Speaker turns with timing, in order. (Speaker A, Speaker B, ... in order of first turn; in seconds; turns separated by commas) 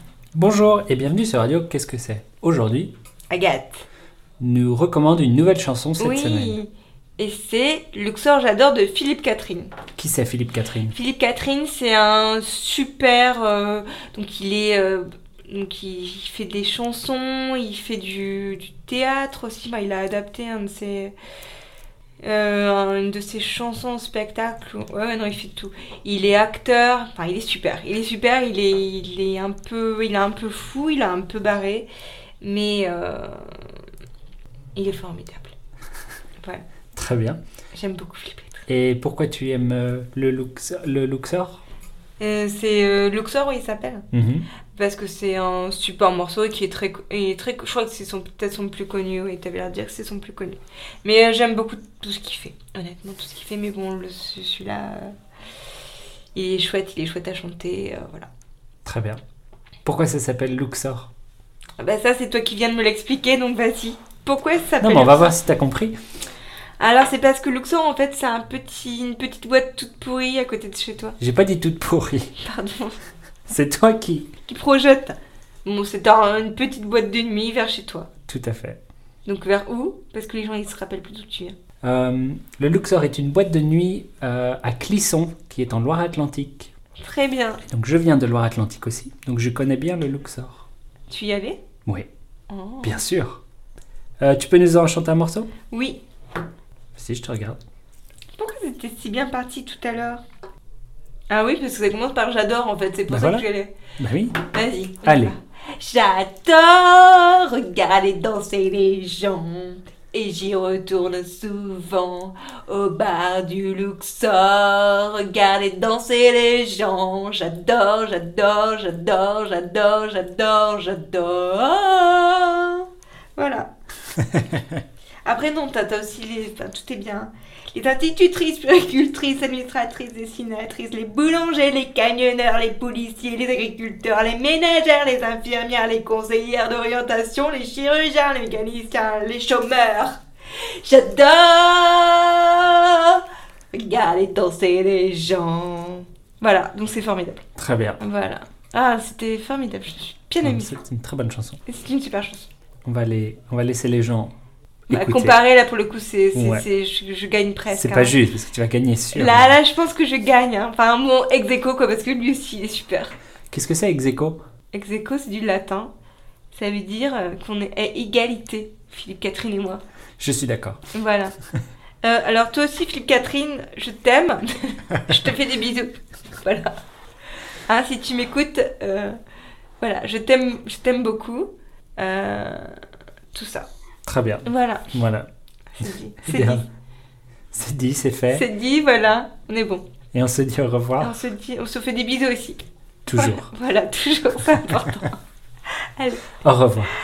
Speaker A: 0.3-2.9, Speaker B: 3.3-3.9, Speaker A: 4.4-6.6, Speaker B: 6.0-9.8, Speaker A: 10.0-10.9, Speaker B: 10.9-21.1, Speaker B: 22.2-31.9, Speaker B: 32.4-33.8, Speaker B: 34.8-35.5, Speaker A: 37.0-37.4, Speaker B: 37.7-38.6, Speaker A: 38.7-41.6, Speaker B: 42.2-44.1, Speaker A: 44.1-44.5, Speaker B: 44.7-55.1, Speaker B: 56.3-58.3, Speaker A: 58.9-59.2, Speaker A: 59.9-61.1, Speaker B: 61.8-65.3, Speaker A: 64.8-66.0, Speaker B: 66.8-71.2, Speaker A: 71.2-72.3, Speaker B: 72.4-73.0, Speaker A: 73.5-74.3, Speaker B: 74.5-78.1, Speaker A: 78.3-78.8, Speaker B: 79.3-81.5, Speaker A: 81.8-86.7, Speaker B: 87.0-87.6, Speaker A: 87.7-90.7, Speaker B: 91.1-91.6, Speaker B: 92.5-93.0, Speaker A: 92.8-93.4, Speaker A: 94.2-95.5, Speaker B: 95.7-96.0, Speaker A: 97.0-97.6, Speaker B: 98.4-100.2, Speaker B: 101.3-103.7, Speaker A: 103.1-104.4, Speaker B: 104.4-123.7, Speaker A: 105.0-105.3, Speaker B: 125.2-140.2, Speaker B: 140.8-147.4, Speaker A: 147.6-148.0, Speaker B: 148.0-150.8, Speaker A: 150.4-151.6, Speaker B: 151.7-152.5, Speaker A: 152.8-154.3, Speaker A: 154.9-155.4, Speaker B: 154.9-158.2, Speaker A: 156.3-156.7, Speaker A: 157.7-159.6, Speaker B: 159.1-163.1, Speaker A: 163.5-164.4, Speaker B: 164.7-165.9, Speaker B: 166.5-169.8, Speaker A: 170.2-170.8, Speaker B: 170.9-171.3, Speaker B: 172.0-176.8, Speaker B: 177.7-179.2, Speaker B: 179.8-182.8, Speaker B: 183.3-183.7, Speaker A: 184.1-185.3, Speaker B: 184.4-184.9, Speaker B: 185.7-186.7, Speaker A: 186.2-186.6, Speaker A: 187.5-188.5, Speaker B: 188.3-189.9, Speaker A: 190.1-191.2, Speaker B: 191.0-195.2, Speaker A: 193.1-193.5, Speaker B: 196.0-196.3, Speaker A: 196.4-196.9